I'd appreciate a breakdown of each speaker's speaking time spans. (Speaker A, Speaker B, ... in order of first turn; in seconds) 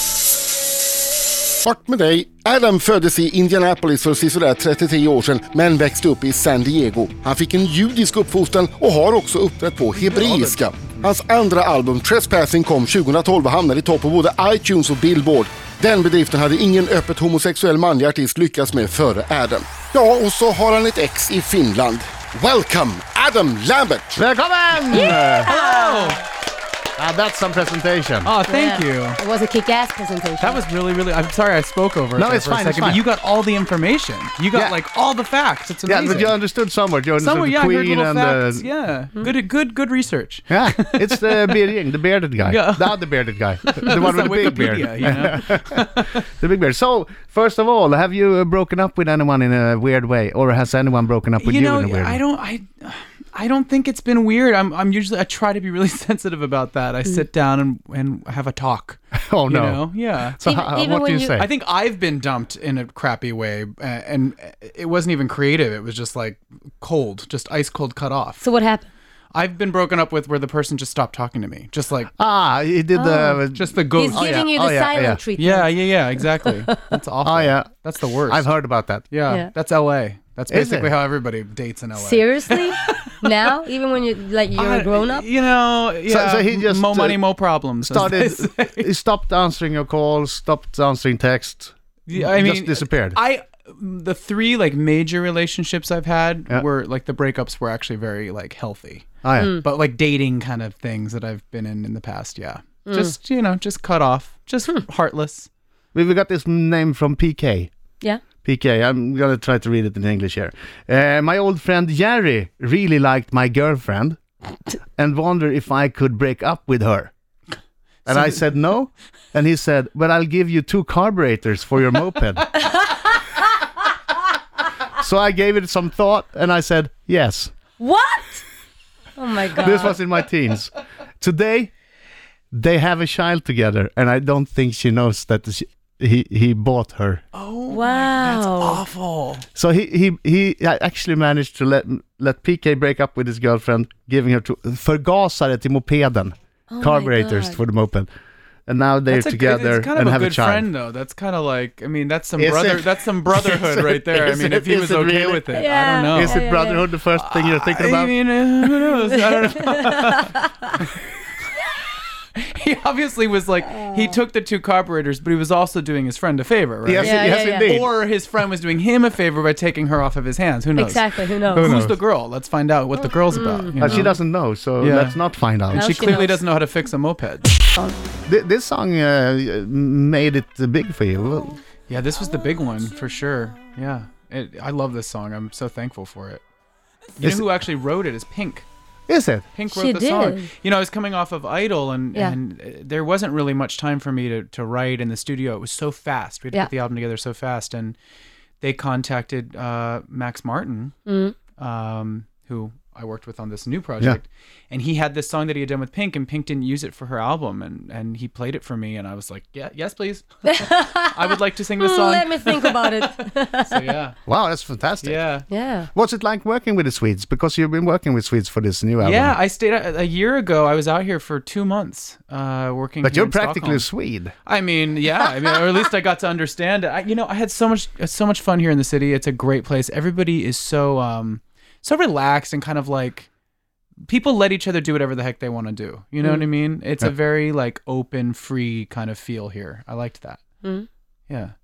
Speaker A: 1.5-24.2
Speaker B: 10.1-10.5, 25.4-26.2, 28.2-29.2, 30.4-36.4, 37.2-41.6, 42.4-43.1, 43.6-46.2, 51.4-60.4, 61.4-68.4, 69.3-72.1, 73.5-74.3, 75.4-78.5, 79.1-83.1, 84.5-88.8, 92.1-99.1, 99.6-105.5, 137.3-139.4, 149.1-156.4, 157.2-160.8, 162.3-174.2, 174.8-175.2, 175.7-177.5, 181.9-186.4, 187.2-188.7, 189.5-197.9, 198.6-200.9, 201.5-213.1, 213.6-214.2, 215.0-215.4, 219.0-223.9, 224.4-233.3, 234.0-240.5
Speaker C: 24.1-25.5, 27.0-28.3, 32.2-33.0, 35.9-38.7, 40.5-52.2, 59.1-61.5, 72.2-75.2, 77.2-77.7, 78.3-79.1, 80.5-80.9, 86.1-87.2, 87.8-93.2, 99.2-99.6, 105.9-107.7, 108.4-114.2, 115.0-117.1, 118.0-122.5, 124.9-127.5, 129.6-131.7, 132.5-137.2, 139.5-148.1, 148.7-150.7, 152.4-155.5, 156.1-158.2, 166.8-167.9, 171.5-172.0, 173.8-176.2, 178.3-181.6, 189.1-189.5, 214.3-215.2, 215.9-219.4, 223.0-224.3
Speaker D: 24.9-26.2, 28.4-30.6, 60.4-61.4, 68.4-68.9, 72.9-73.4, 74.0-75.8, 76.3-76.9, 82.0-85.3, 99.4-99.6, 102.9-103.1, 127.8-128.4, 129.2-129.9, 137.7-138.8, 146.7-147.6, 155.5-156.9, 159.0-160.7, 167.0-167.7, 170.8-171.7, 173.3-174.1, 175.7-176.4, 189.7-190.5, 201.1-201.4, 210.4-213.9, 215.5-215.9